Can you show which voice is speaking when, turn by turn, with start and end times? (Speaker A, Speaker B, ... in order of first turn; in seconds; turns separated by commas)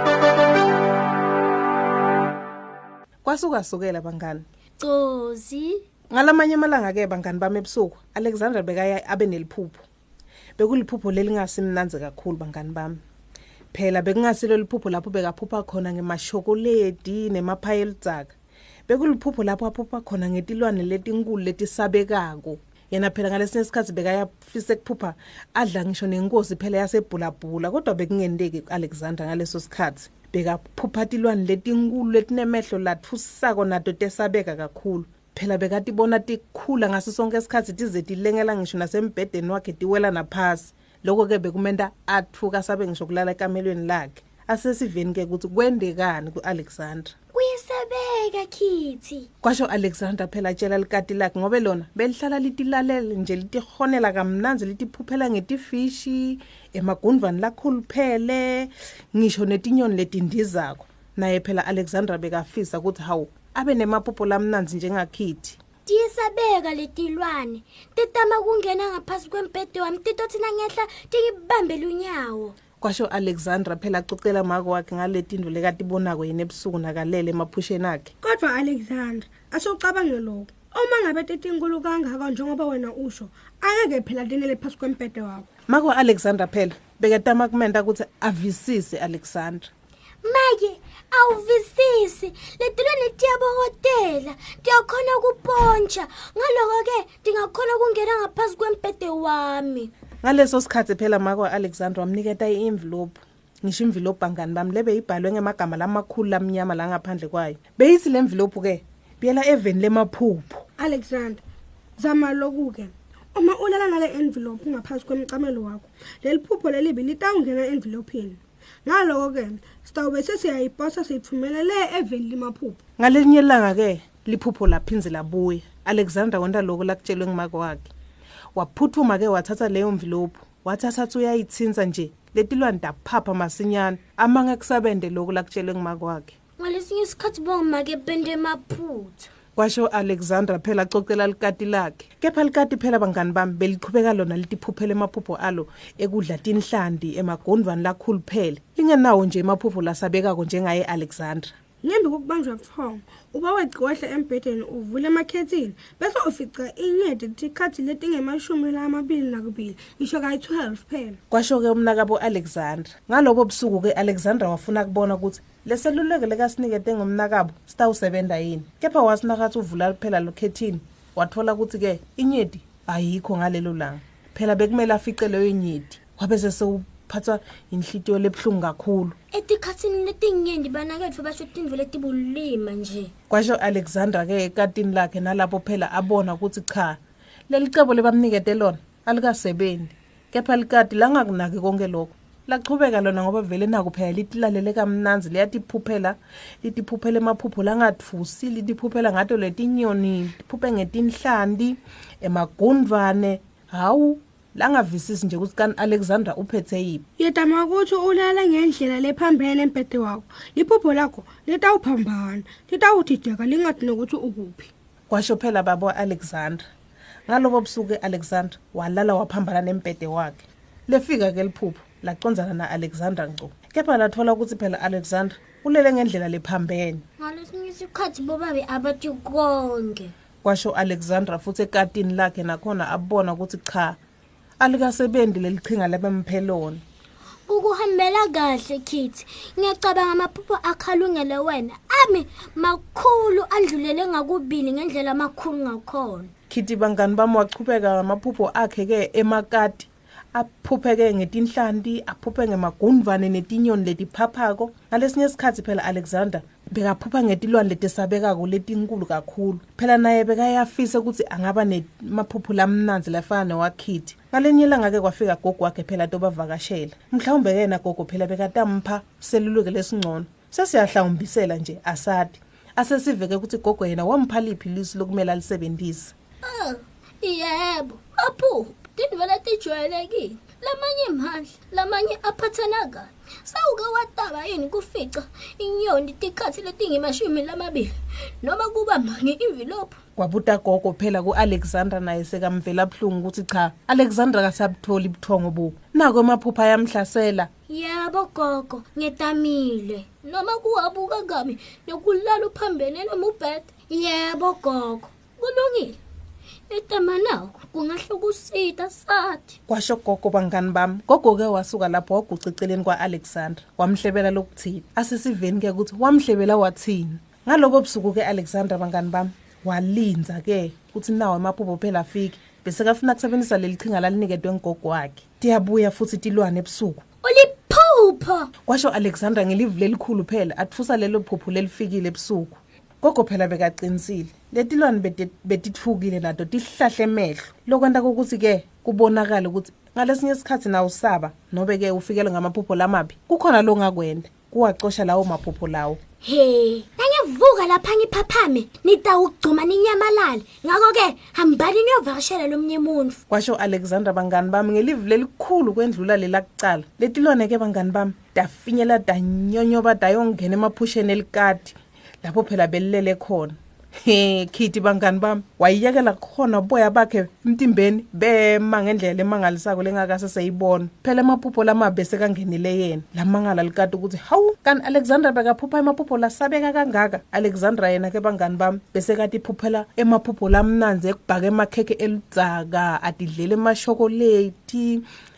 Speaker A: 3.2-4.4, Speaker B: 4.8-5.8, Speaker A: 6.1-9.8, Speaker A: 10.6-13.0, Speaker A: 13.7-18.3, Speaker A: 18.9-47.1, Speaker B: 47.3-49.3, Speaker A: 49.4-65.6, Speaker B: 65.9-72.5, Speaker A: 72.8-78.1, Speaker C: 78.2-85.5, Speaker A: 85.7-89.7, Speaker B: 90.2-99.9, Speaker A: 100.2-110.7, Speaker C: 110.8-111.4, Speaker C: 112.0-122.8, Speaker A: 123.0-127.9, Speaker A: 128.5-136.3, Speaker B: 136.6-139.3, Speaker A: 139.6-151.5, Speaker C: 151.8-161.2, Speaker A: 161.3-179.2, Speaker B: 179.3-183.1, Speaker A: 183.3-187.0, Speaker A: 187.5-207.0, Speaker C: 207.2-214.7, Speaker A: 215.1-216.6, Speaker A: 217.3-227.0, Speaker B: 227.2-230.1, Speaker A: 230.4-234.0, Speaker A: 234.6-236.8, Speaker B: 237.5-246.3, Speaker A: 246.5-276.1, Speaker B: 276.4-290.0, Speaker A: 290.2-297.5, Speaker B: 297.7-306.0, Speaker B: 306.7-309.6, Speaker A: 309.7-327.0, Speaker B: 327.2-328.5, Speaker A: 328.7-346.0, Speaker B: 346.2-353.2, Speaker A: 353.3-385.1